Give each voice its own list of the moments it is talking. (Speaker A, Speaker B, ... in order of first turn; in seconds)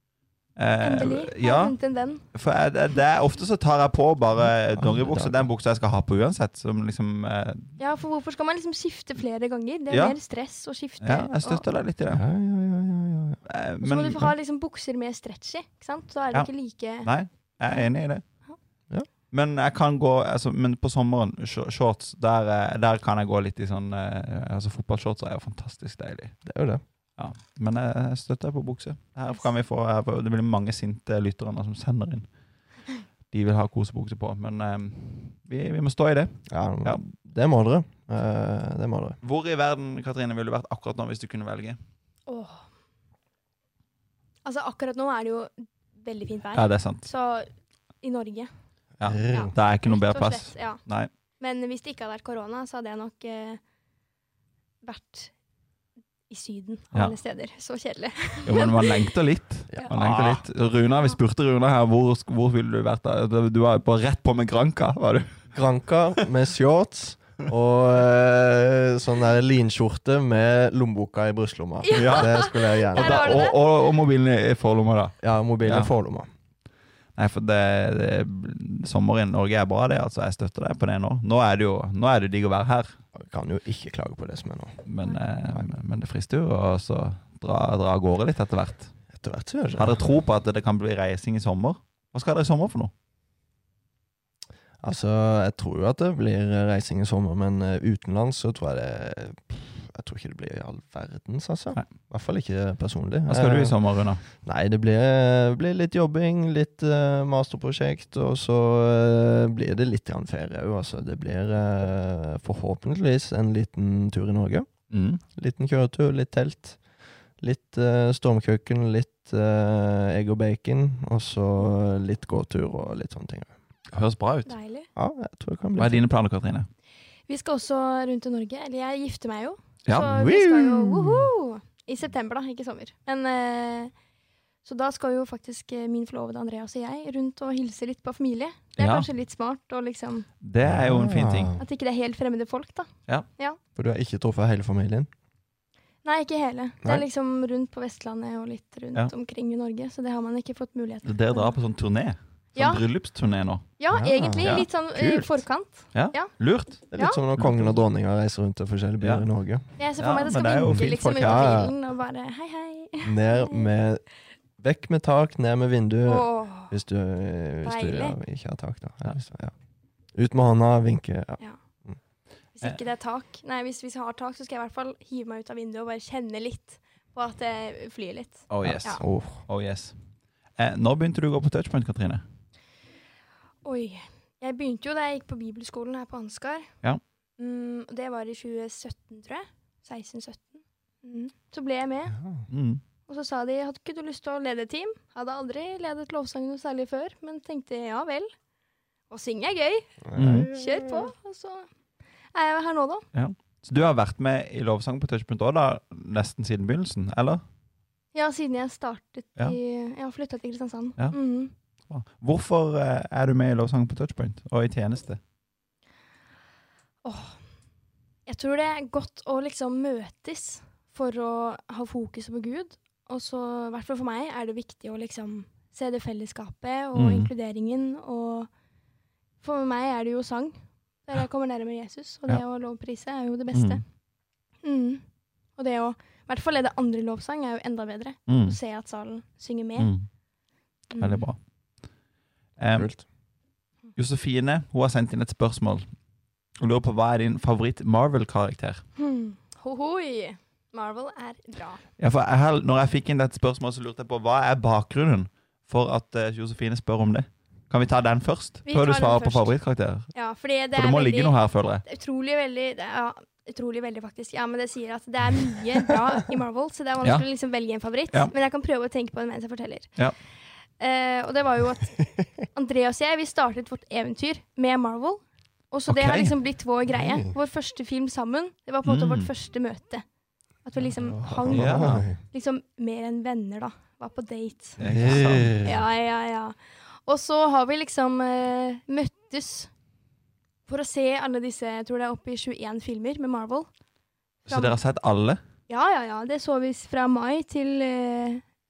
Speaker A: 0.6-1.8, 2.3-7.7, 9.9-10.2, 11.0-12.2, 13.5-14.3, 16.3-18.2, 19.3-26.4, 27.2-32.3, 33.3-37.0, 39.2-41.8, 46.5-47.1, 49.0-51.1, 58.5-65.3, 71.9-75.9, 77.2-83.0, 84.9-88.9, 89.8-92.9, 103.3-104.2, 114.9-115.2, 123.9-124.5, 125.8-126.7, 129.9-130.2, 138.8-139.1, 140.4-141.5, 151.1-153.7, 154.4-155.3, 155.9-157.7, 159.0-159.3, 160.0-161.7, 178.5-179.9, 180.6-182.2, 192.5-192.8, 200.2-200.5, 203.1-207.4, 211.9-215.2, 226.9-227.3, 233.5-233.8, 238.3-238.6, 239.8-240.1, 241.0-241.4, 242.6-242.9, 244.0-245.8, 246.6-248.8, 252.0-260.1, 260.7-261.8, 275.9-276.3, 278.8-279.3, 281.5-282.1, 284.8-285.6, 294.5-295.4
Speaker B: 0.8-2.2, 7.8-11.7, 13.8-17.1, 42.3-42.6, 44.5-47.5, 48.0-48.5, 49.3-50.8, 51.4-53.6, 54.8-55.3, 56.3-59.1, 71.8-73.6, 124.5-124.9, 127.3-133.9, 134.6-140.3, 141.6-143.6, 146.0-151.5, 152.6-152.8, 153.8-156.3, 157.0-157.2, 159.8-163.7, 166.1-166.7, 167.6-168.2, 172.6-179.0, 183.6-186.7, 187.4-192.2, 193.1-198.3, 199.1-201.7, 202.3-203.1, 208.1-211.5, 217.0-217.4, 218.3-228.5, 229.4-233.8, 234.6-235.0, 235.6-239.9, 240.9-241.2, 249.0-251.8, 258.7-259.5, 260.1-269.9, 270.8-280.0, 280.6-284.8, 285.6-289.7, 290.7-293.7, 294.5-294.8, 295.7-298.4
Speaker C: 4.8-5.5, 12.1-13.4, 26.5-26.8, 36.5-39.2, 49.0-49.5, 59.7-60.4, 65.5-73.5, 75.2-76.3, 83.1-84.8, 89.1-90.0, 94.8-103.8, 104.4-114.7, 115.3-116.8, 117.4-123.5, 125.0-126.0, 130.0-131.3, 140.6-141.6, 143.8-145.1, 153.9-154.6, 156.9-159.6, 160.7-161.7, 163.0-164.0, 164.6-169.5, 170.2-172.0, 178.6-179.4, 192.2-192.4, 200.1-201.1, 242.8-243.0, 276.9-277.3, 280.8-282.2, 284.8-285.8